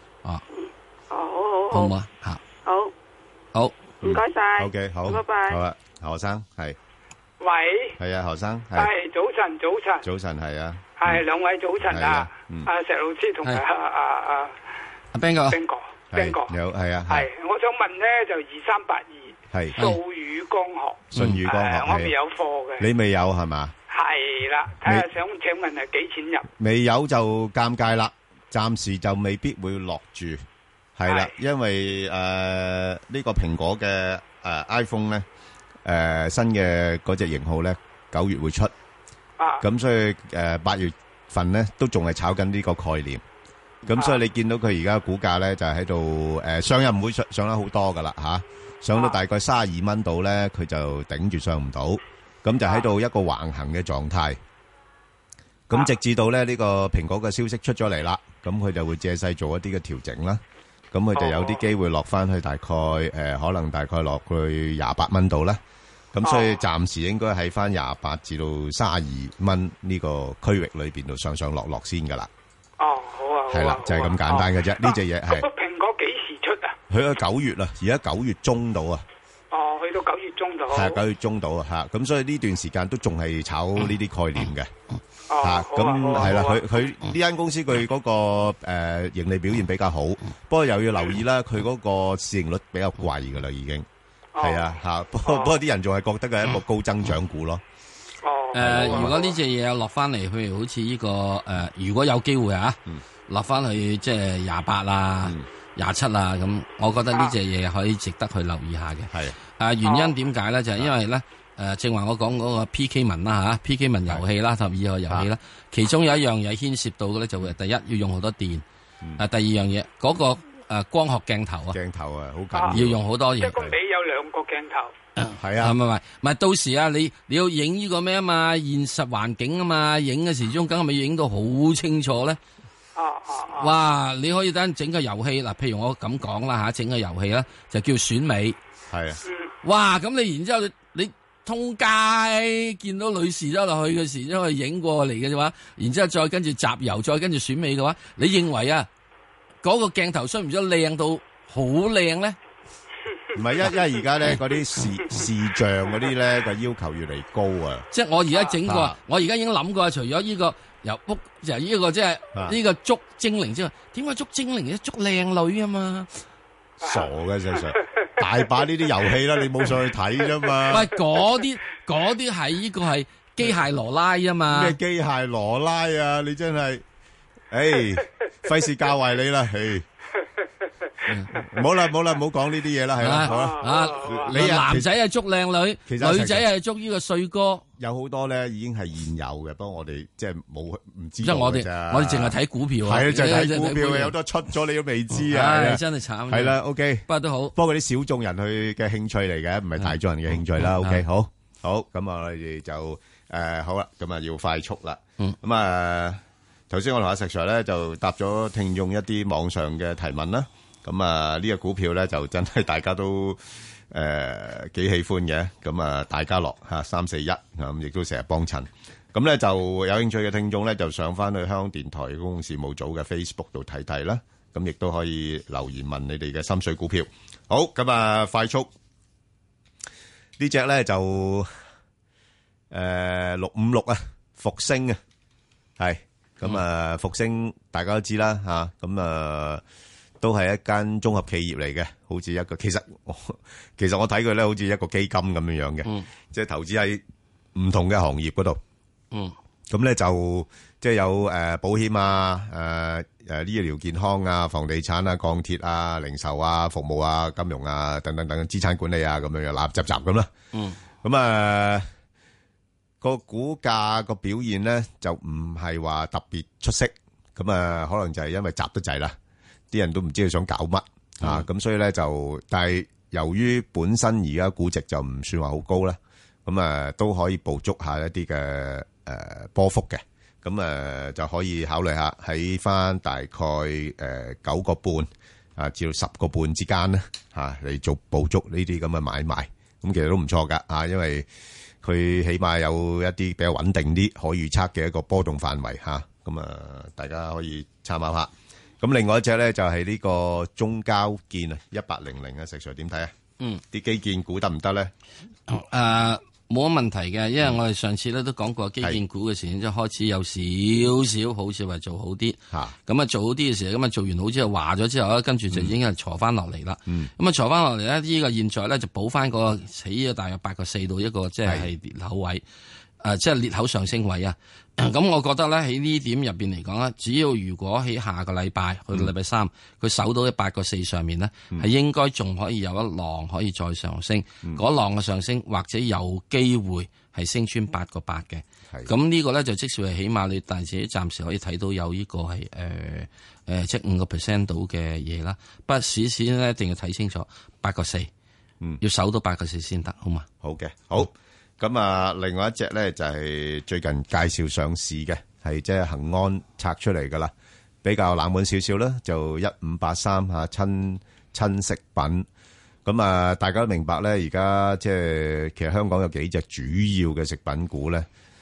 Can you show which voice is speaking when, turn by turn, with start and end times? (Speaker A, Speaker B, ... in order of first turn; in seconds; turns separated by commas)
Speaker A: 0.5-1.9, Speaker B: 1.7-2.4, Speaker A: 2.6-2.9, Speaker B: 3.5-3.8, Speaker A: 4.0-5.6, Speaker C: 4.0-6.8, Speaker D: 7.4-8.0, Speaker C: 8.0-8.9, Speaker D: 8.8-10.1, Speaker C: 10.0-11.2, Speaker D: 11.0-14.5, Speaker C: 11.8-12.7, Speaker B: 15.1-15.6, Speaker D: 15.5-16.5, Speaker C: 16.1-17.3, Speaker D: 17.1-22.9, Speaker C: 19.5-19.8, Speaker C: 21.1-22.1, Speaker B: 21.1-21.4, Speaker C: 22.8-23.7, Speaker D: 23.9-26.5, Speaker C: 26.6-30.4, Speaker C: 31.0-35.3, Speaker D: 31.1-31.3, Speaker C: 35.9-38.7, Speaker C: 39.6-43.2, Speaker C: 43.9-54.4, Speaker C: 55.7-65.6, Speaker D: 61.1-61.6, Speaker C: 66.1-72.3, Speaker D: 66.2-66.6, Speaker D: 72.8-76.8, Speaker C: 73.5-75.5, Speaker C: 76.9-79.0, Speaker D: 79.5-81.0, Speaker C: 80.7-84.7, Speaker D: 85.3-86.7, Speaker C: 85.4-93.9, Speaker D: 94.3-94.7, Speaker C: 94.4-97.6, Speaker D: 95.2-95.6, Speaker D: 98.2-99.3, Speaker B: 98.5-118.6, Speaker C: 98.6-99.3, Speaker C: 109.1-109.4, Speaker B: 119.2-121.8, Speaker C: 121.7-123.0, Speaker B: 122.7-123.6, Speaker D: 123.4-124.9, Speaker B: 125.2-132.4, Speaker C: 125.3-125.8, Speaker D: 133.0-133.7, Speaker B: 133.6-138.6, Speaker C: 138.9-139.2, Speaker B: 139.6-148.9, Speaker B: 149.6-152.4, Speaker C: 153.3-157.9, Speaker B: 157.9-166.1, Speaker C: 158.6-159.0, Speaker C: 166.8-170.9, Speaker B: 170.7-174.8, Speaker C: 174.5-176.8, Speaker C: 177.5-179.9, Speaker B: 181.1-181.4, Speaker C: 181.3-184.9, Speaker B: 183.0-187.7, Speaker D: 183.3-184.3, Speaker C: 185.9-186.5, Speaker C: 187.8-228.7, Speaker B: 191.2-194.2, Speaker B: 195.1-197.5, Speaker B: 200.6-201.1, Speaker C: 230.4-231.5, Speaker C: 232.7-235.0, Speaker C: 235.8-239.6, Speaker C: 240.2-247.0, Speaker C: 247.6-248.6, Speaker C: 249.7-260.3, Speaker B: 260.5-260.8, Speaker C: 261.0-261.9, Speaker C: 263.0-269.1, Speaker C: 269.7-291.3, Speaker C: 291.8-303.1, Speaker C: 303.7-304.9, Speaker B: 305.5-322.4, Speaker C: 316.9-317.1, Speaker C: 321.4-321.7, Speaker B: 323.0-348.1, Speaker B: 348.8-350.3, Speaker C: 350.4-357.3, Speaker C: 357.8-362.2, Speaker C: 362.9-368.1